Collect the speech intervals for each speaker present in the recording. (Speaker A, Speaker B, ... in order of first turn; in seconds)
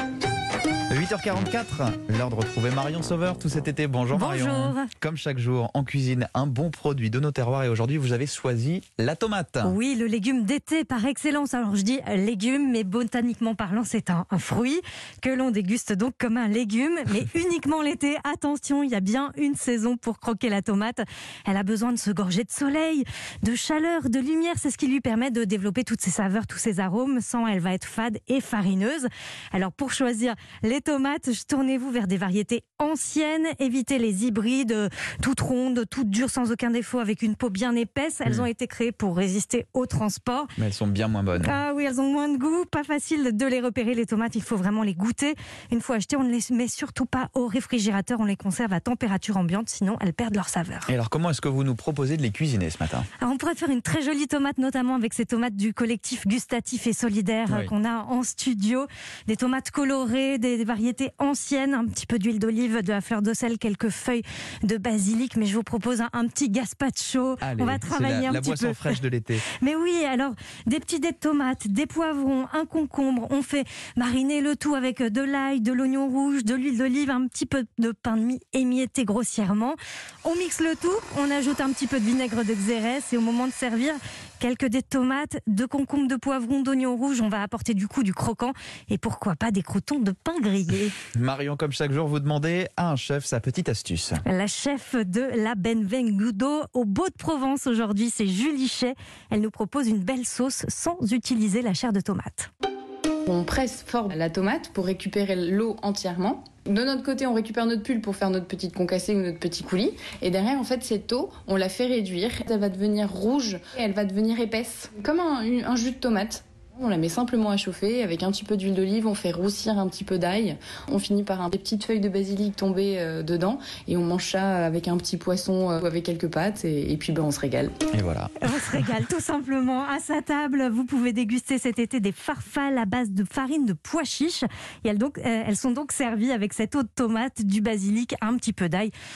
Speaker A: 0.9-9.8, 40.6-41.6, 50.9-53.1, 57.5-57.7, 67.4-69.5, 91.1-94.2, 127.9-128.9
Speaker B: 4.1-4.9, 9.6-40.5, 41.4-50.9, 53.2-69.0, 69.5-91.0, 94.2-102.5, 128.4-138.9
Speaker C: 103.3-127.7